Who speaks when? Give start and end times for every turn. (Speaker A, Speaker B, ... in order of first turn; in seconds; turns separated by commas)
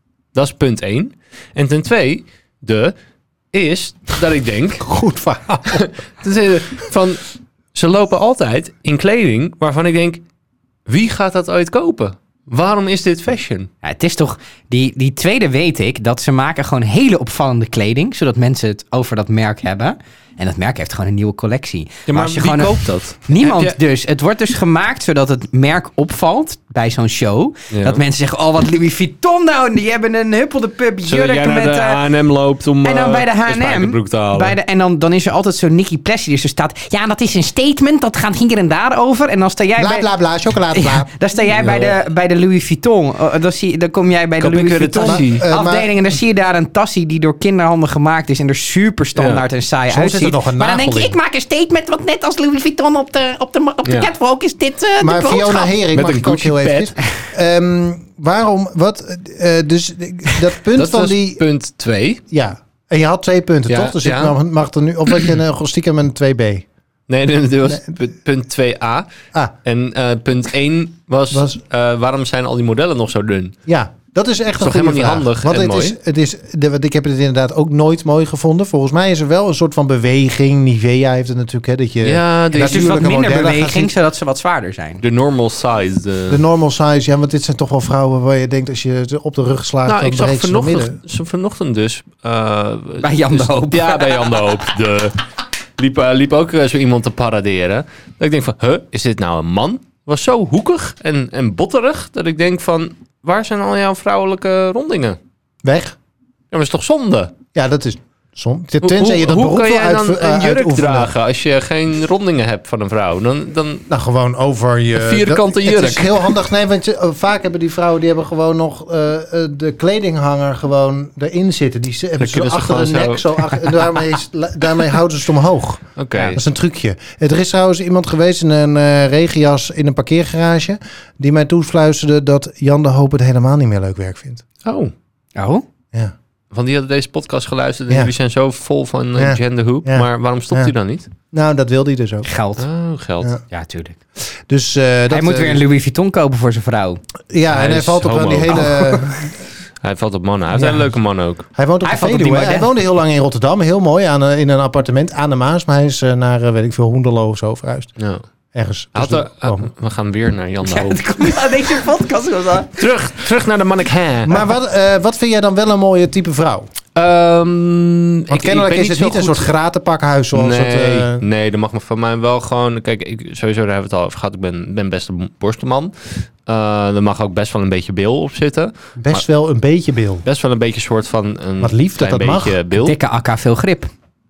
Speaker A: 0.3-2.9, Speaker A: 3.5-4.9, Speaker B: 4.8-5.9, Speaker A: 5.7-10.2, Speaker A: 10.8-13.7, Speaker C: 13.8-32.0, Speaker A: 22.1-23.8, Speaker A: 27.7-28.0, Speaker A: 31.1-34.5, Speaker C: 32.8-40.1, Speaker B: 39.8-41.1, Speaker C: 40.7-55.7, Speaker A: 41.5-42.0, Speaker A: 44.4-45.4, Speaker B: 44.9-45.9, Speaker A: 49.1-49.4, Speaker B: 49.9-51.1, Speaker B: 55.0-61.4, Speaker A: 55.9-57.0, Speaker A: 60.7-62.2, Speaker B: 62.3-66.6, Speaker A: 63.7-64.3, Speaker A: 67.1-69.1, Speaker A: 69.6-73.5, Speaker B: 71.3-71.6, Speaker B: 73.7-83.9, Speaker A: 74.6-76.0, Speaker A: 82.0-83.4, Speaker C: 82.5-85.0, Speaker A: 85.0-86.4, Speaker B: 86.3-91.0, Speaker A: 89.8-95.2, Speaker C: 93.0-94.3, Speaker A: 95.8-105.2, Speaker B: 105.6-106.0, Speaker A: 106.5-107.3, Speaker B: 107.5-111.1, Speaker A: 108.8-113.9, Speaker B: 113.9-134.4, Speaker A: 114.9-116.3, Speaker A: 122.2-123.4, Speaker A: 126.0-126.4, Speaker A: 134.6-134.9, Speaker C: 135.3-135.6, Speaker A: 136.5-141.1, Speaker B: 139.2-140.7, Speaker B: 141.3-142.3, Speaker C: 142.2-142.7, Speaker A: 142.6-143.3, Speaker C: 143.5-144.0, Speaker B: 144.4-145.6, Speaker C: 145.1-147.0, Speaker B: 147.3-149.4, Speaker A: 147.5-148.7, Speaker C: 148.5-148.8, Speaker A: 149.8-151.4, Speaker B: 150.5-150.9, Speaker B: 151.5-157.9, Speaker C: 151.8-152.7, Speaker A: 158.0-158.2, Speaker B: 158.5-159.7, Speaker A: 158.9-161.7, Speaker C: 160.6-162.7, Speaker A: 162.8-164.4, Speaker B: 164.2-166.7, Speaker A: 166.9-169.5, Speaker B: 168.3-171.2, Speaker A: 170.3-179.2, Speaker B: 179.0-180.2, Speaker A: 180.2-182.9, Speaker B: 181.6-182.6, Speaker C: 182.8-183.9